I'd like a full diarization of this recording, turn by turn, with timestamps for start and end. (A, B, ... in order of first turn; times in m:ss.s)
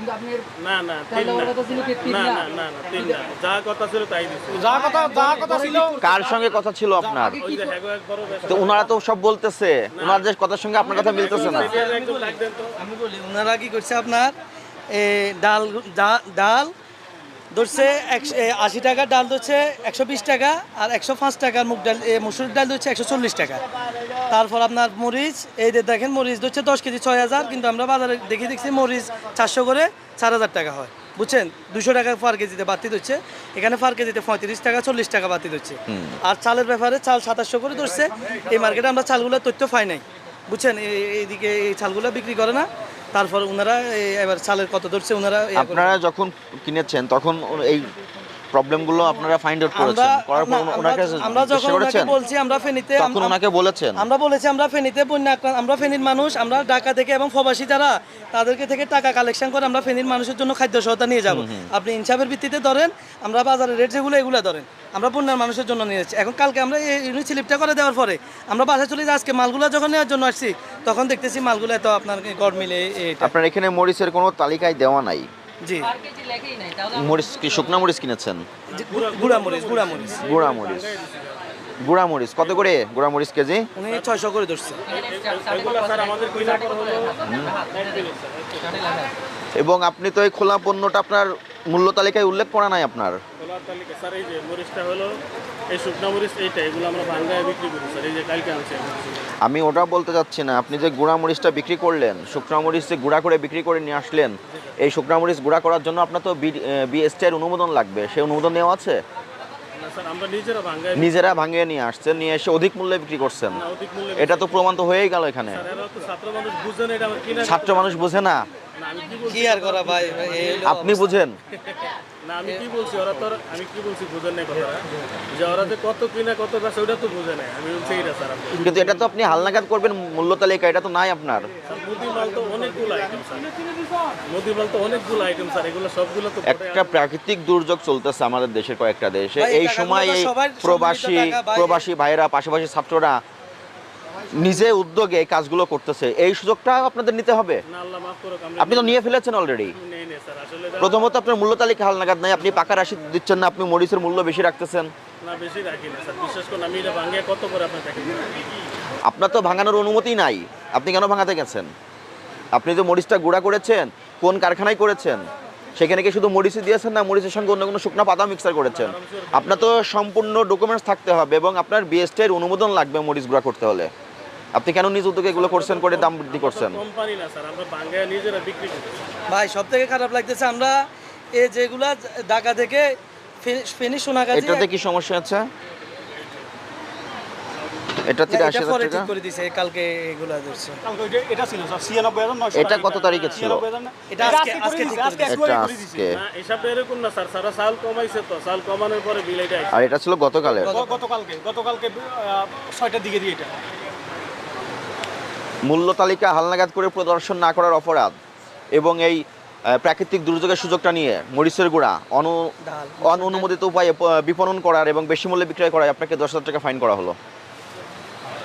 0:00.6-0:04.7 A
0:01.5-0:02.3 B
0:04.5-0:06.0 C
0:06.0-0:07.4 D
0:07.3-0:08.9 A
0:08.5-0:11.8 D
0:09.9-0:10.3 A
0:10.9-0:12.8 A
0:12.9-0:14.3 E
0:14.9-0:16.7 E
0:17.5-0:23.6 E
0:24.3-0:45.9 E
0:35.9-0:36.2 D
0:45.5-0:47.9 D
0:48.5-0:52.2 D
0:49.7-0:53.4 E
0:53.0-0:54.0 D
0:54.0-1:13.3 E
1:01.3-1:01.7 D
1:13.2-1:15.3 D
1:15.6-1:15.9 E
1:15.8-1:17.9 B
1:16.9-1:18.4 D
1:18.7-1:21.5 A
1:18.7-1:20.2 E
1:20.2-1:20.9 D
1:21.8-1:23.7 D
1:22.4-1:22.7 A
1:23.8-1:24.8 E
1:23.9-1:24.1 A
1:24.9-1:27.2 A
1:24.9-1:28.0 B
1:27.2-1:27.5 D
1:27.7-1:28.7 A
1:28.6-1:29.1 B
1:29.6-1:33.2 D
1:33.4-1:35.1 A
1:35.7-1:39.3 A
1:39.4-1:49.0 D
1:49.8-1:51.4 A
1:50.9-1:53.6 D
1:53.5-1:54.8 A
1:54.2-1:55.6 D
1:55.5-1:58.1 A
1:57.4-1:58.4 D
1:58.8-2:00.7 A
1:59.3-2:01.1 E
2:00.6-2:01.4 D
2:01.7-2:09.0 A
2:08.6-2:11.5 D
2:11.6-2:13.5 A
2:14.3-2:17.0 A
2:16.4-2:23.2 D
2:19.4-2:21.8 E
2:24.4-2:27.6 D
2:27.7-2:29.0 A
2:28.6-2:29.7 D
2:29.7-2:31.1 A
2:30.8-2:34.9 D
2:35.2-2:38.4 A
2:39.0-2:41.7 D
2:42.5-2:45.2 D
2:45.8-2:53.9 D
2:48.7-2:49.8 A
2:54.5-2:56.8 D
2:55.3-2:59.0 A
2:59.3-3:00.8 E
3:01.3-3:02.9 E
3:03.4-3:04.7 E
3:04.3-3:05.5 D
3:08.0-3:09.1 D
3:08.3-3:10.8 E
3:10.8-3:16.0 C
3:12.5-3:13.5 A
3:12.5-3:13.6 D
3:14.1-3:15.4 E
3:15.2-3:16.2 D
3:16.1-3:19.8 A
3:19.7-3:20.8 D
3:20.6-3:21.0 E
3:20.7-3:23.5 C
3:25.6-3:28.1 D
3:28.7-3:29.2 D
3:29.7-3:32.5 D
3:32.6-3:33.5 E
3:33.0-3:37.2 D